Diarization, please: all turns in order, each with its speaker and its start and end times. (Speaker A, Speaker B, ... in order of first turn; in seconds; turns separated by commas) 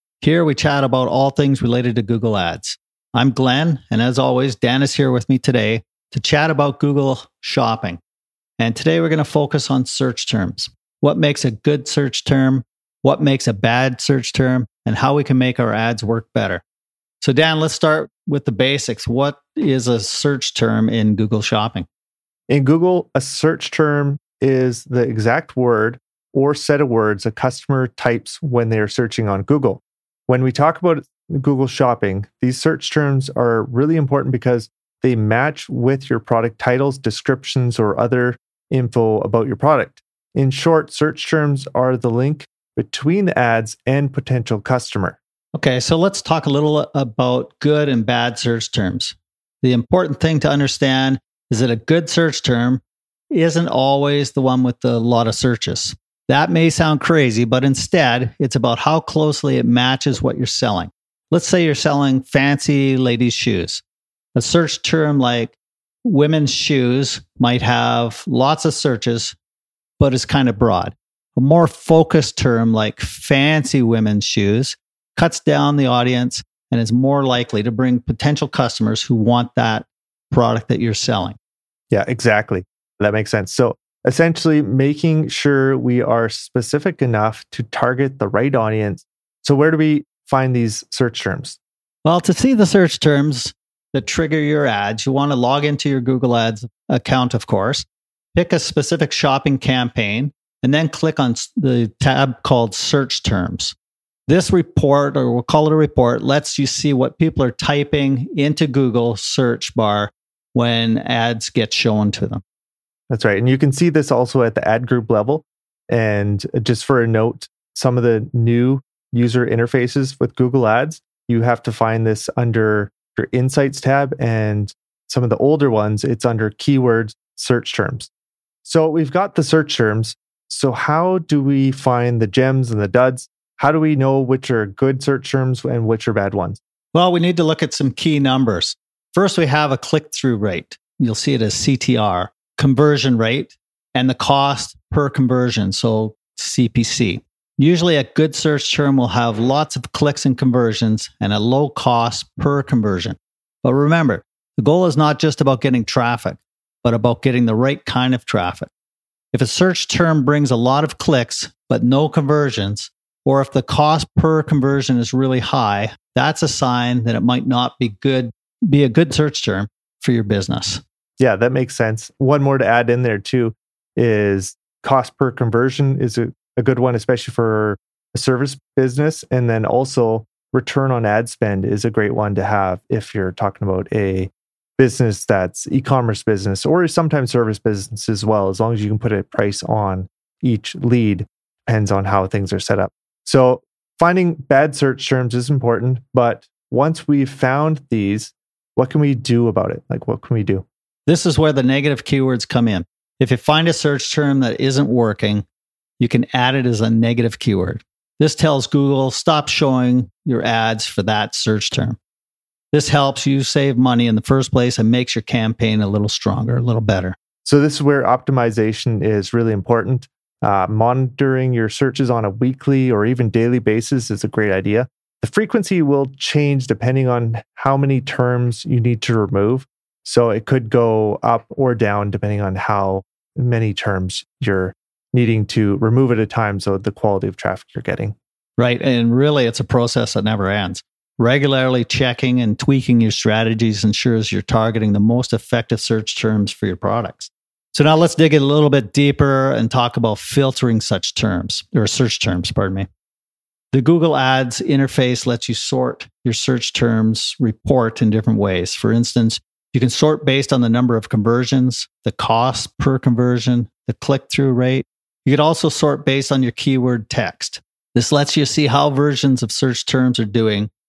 Speaker A: 0.2-8.0, Speaker A: 8.6-16.6, Speaker A: 17.2-21.9, Speaker B: 22.5-45.2, Speaker A: 45.5-63.8, Speaker A: 64.3-69.4, Speaker A: 70.0-81.4, Speaker B: 81.9-91.6, Speaker A: 92.0-103.8, Speaker A: 104.3-112.4, Speaker B: 113.1-128.1, Speaker B: 128.7-136.6, Speaker A: 136.9-158.7, Speaker A: 159.3-170.8, Speaker B: 171.2-200.7, Speaker A: 201.1-205.5, Speaker A: 206.0-212.0, Speaker A: 212.7-217.2, Speaker B: 217.4-238.2, Speaker A: 238.6-252.9, Speaker A: 253.7-270.7